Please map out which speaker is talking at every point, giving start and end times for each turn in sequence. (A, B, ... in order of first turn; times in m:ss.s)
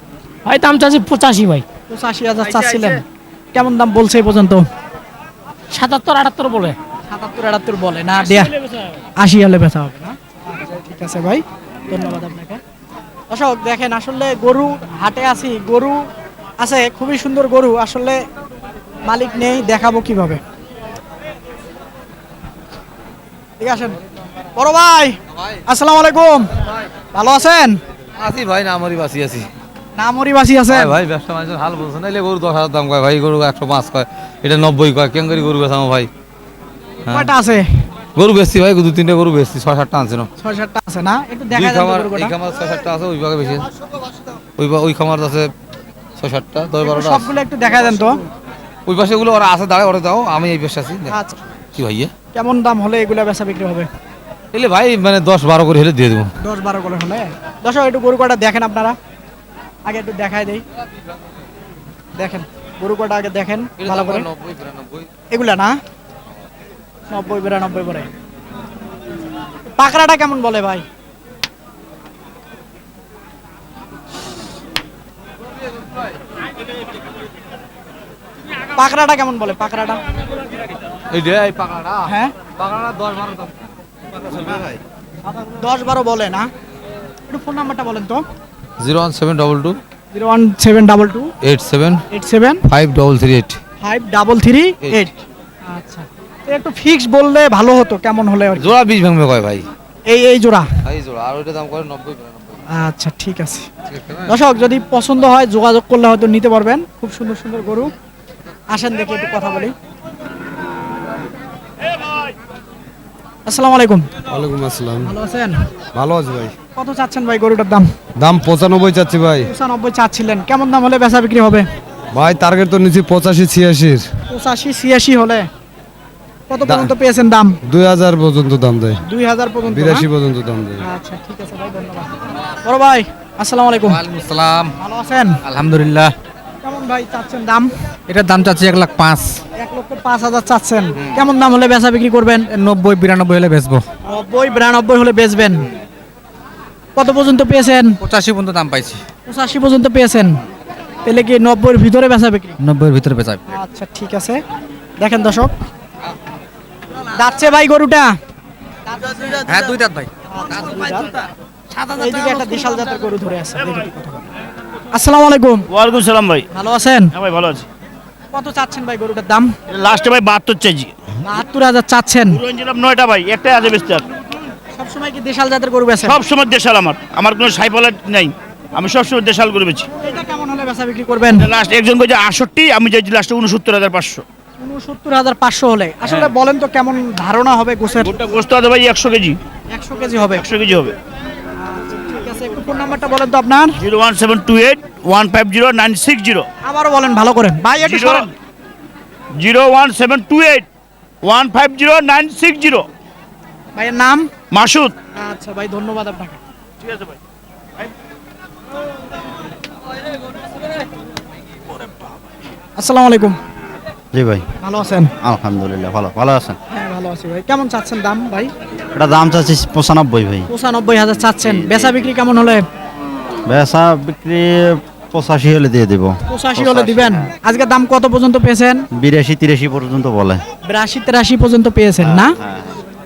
0:00.4-0:01.6 A
0:01.9-0:03.0 B
0:03.5-0:04.6 B
0:05.7-0:06.8 A
0:07.1-0:08.5 B
0:09.2-0:12.6 B
0:13.3-0:16.0 B
0:16.6-0:18.2 B
0:19.0-0:20.4 B
0:23.6-0:24.0 B
0:24.6-0:26.5 B
0:27.1-0:27.8 B
0:28.2-0:29.5 C
0:30.0-0:30.9 B
0:30.7-0:36.1 C
0:37.1-0:37.3 C
0:37.1-0:37.7 B
0:38.2-0:40.3 C
0:40.4-0:42.4 B
0:41.5-0:43.7 C
0:44.6-0:45.5 C
0:46.2-0:47.3 C
0:46.8-0:48.2 B
0:48.9-0:51.1 C
0:51.1-0:51.4 B
0:51.7-0:52.1 C
0:52.3-0:53.9 B
0:54.5-0:56.3 C
0:56.4-0:59.0 B
0:59.8-1:00.6 B
1:02.2-1:04.3 B
1:03.8-1:05.1 C
1:05.3-1:05.7 B
1:07.1-1:08.1 B
1:09.8-1:10.8 B
1:18.8-1:20.0 B
1:21.1-1:22.1 C
1:22.0-1:22.3 B
1:22.6-1:23.5 C
1:25.5-1:26.5 B
1:27.3-1:28.2 B
1:28.8-1:29.8 C
1:30.1-1:31.3 B
1:31.4-1:32.0 C
1:32.1-1:32.6 B
1:32.7-1:33.6 C
1:33.8-1:38.7 B
1:38.6-1:39.6 C
1:40.1-1:40.7 B
1:40.8-1:42.6 C
1:42.7-1:43.7 B
1:43.9-1:44.3 C
1:44.3-1:47.9 B
1:48.7-1:49.7 B
1:53.4-1:54.1 B
1:54.3-1:55.1 D
1:55.0-1:55.6 B
1:55.9-1:56.5 D
1:56.8-1:57.9 B
1:58.2-1:59.5 D
1:59.4-2:01.6 B
2:02.1-2:04.1 D
2:04.3-2:05.5 B
2:06.5-2:07.6 B
2:06.6-2:06.9 D
2:07.6-2:09.0 D
2:09.0-2:10.1 B
2:09.7-2:10.8 D
2:10.8-2:14.0 B
2:13.9-2:14.7 E
2:14.8-2:15.4 B
2:15.4-2:16.1 E
2:16.6-2:17.7 B
2:18.1-2:19.4 E
2:19.6-2:22.5 B
2:22.5-2:23.8 E
2:24.0-2:25.6 B
2:27.0-2:28.0 B
2:28.0-2:29.0 E
2:29.3-2:30.4 B
2:31.0-2:32.6 B
2:32.6-2:33.4 E
2:33.5-2:34.4 B
2:35.0-2:35.5 B
2:37.1-2:38.1 B
2:39.0-2:39.6 B
2:39.5-2:40.1 E
2:40.3-2:41.1 B
2:41.9-2:44.3 B
2:42.0-2:42.5 E
2:44.9-2:45.6 B
2:45.7-2:46.4 F
2:46.5-2:47.1 B
2:47.1-2:47.6 F
2:48.3-2:49.5 B
2:49.7-2:50.9 F
2:51.2-2:52.4 B
2:52.3-2:54.0 F
2:54.7-2:56.2 B
2:56.0-2:59.9 F
3:00.0-3:01.5 B
3:01.4-3:04.2 F
3:04.6-3:08.1 B
3:08.0-3:09.4 F
3:09.7-3:10.4 B
3:10.3-3:10.9 F
3:11.6-3:13.8 B
3:13.8-3:16.5 F
3:16.6-3:18.3 B
3:17.8-3:18.3 F
3:19.4-3:20.6 F
3:21.2-3:22.8 F
3:23.7-3:24.3 B
3:24.5-3:24.9 F
3:25.2-3:26.4 B
3:26.8-3:27.2 F
3:32.8-3:33.4 B
3:34.1-3:34.4 G
3:34.6-3:35.1 B
3:35.2-3:36.6 G
3:36.7-3:38.5 B
3:38.9-3:40.5 G
3:40.5-3:42.6 B
3:41.4-3:42.1 G
3:43.4-3:47.3 G
3:46.3-3:48.8 B
3:48.9-3:50.4 G
3:50.6-3:52.4 B
3:52.0-3:52.8 G